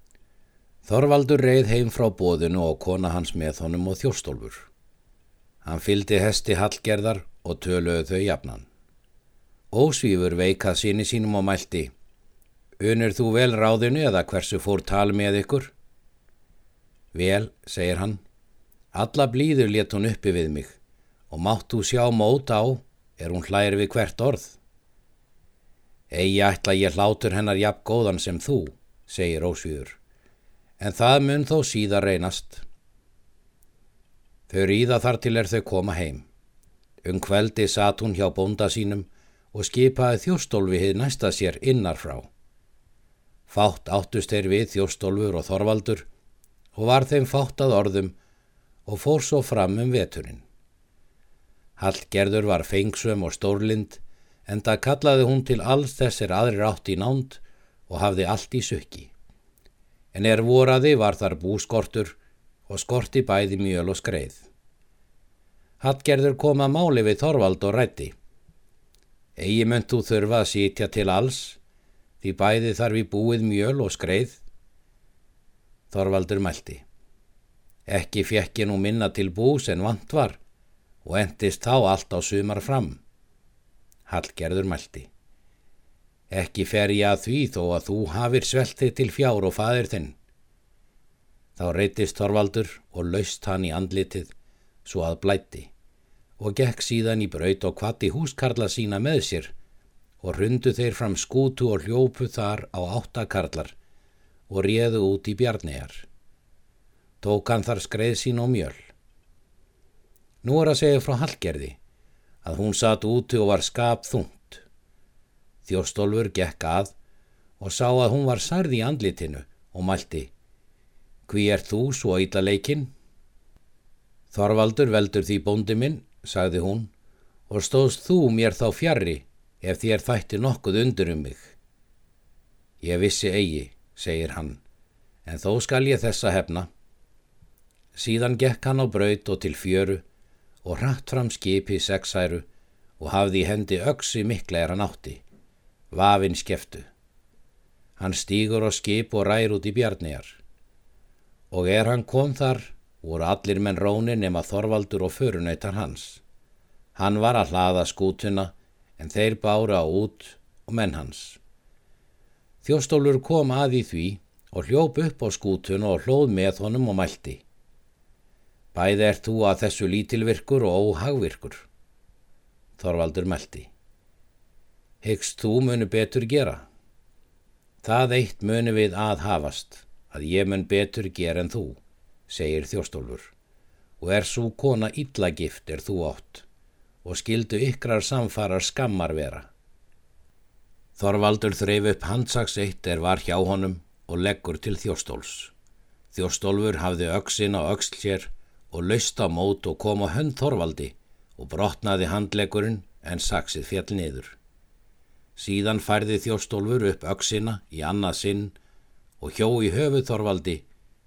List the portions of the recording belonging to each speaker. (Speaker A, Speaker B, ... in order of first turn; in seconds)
Speaker A: 0.8-4.7, 5.6-8.7, 9.7-11.9, 12.8-15.7, 17.1-18.2, 18.9-20.8, 21.3-24.6, 26.1-30.0, 30.8-32.6, 34.5-36.2, 37.0-42.3, 43.5-46.1, 46.8-48.1, 48.9-50.4, 51.8-59.1, 60.1-62.2, 62.7-64.5, 65.8-68.1, 69.4-71.6, 72.2-74.4, 75.9-76.8, 77.9-80.4, 81.0-83.0, 84.1-85.1, 86.3-90.2, 91.6-94.3, 94.8-95.7, 96.4-99.5, 100.2-103.8, 104.5-106.1, 107.2-108.8, 110.4-111.8, 112.4-114.6, 115.7-116.9, 117.6-120.3, 121.3-122.9, 124.3-126.9, 127.5-131.6, 132.8-134.6, 135.2-136.7, 137.9-140.0, 140.6-142.5, 143.0-145.2, 145.9-146.9, 148.0-150.4, 151.5-156.2, 157.0-161.4, 162.6-167.4, 168.7-171.7, 172.8-173.7, 175.0-176.6, 177.8-183.3, 184.0-186.5, 187.0-189.5, 191.0-195.5, 196.1-204.4, 205.4-208.6, 209.2-210.7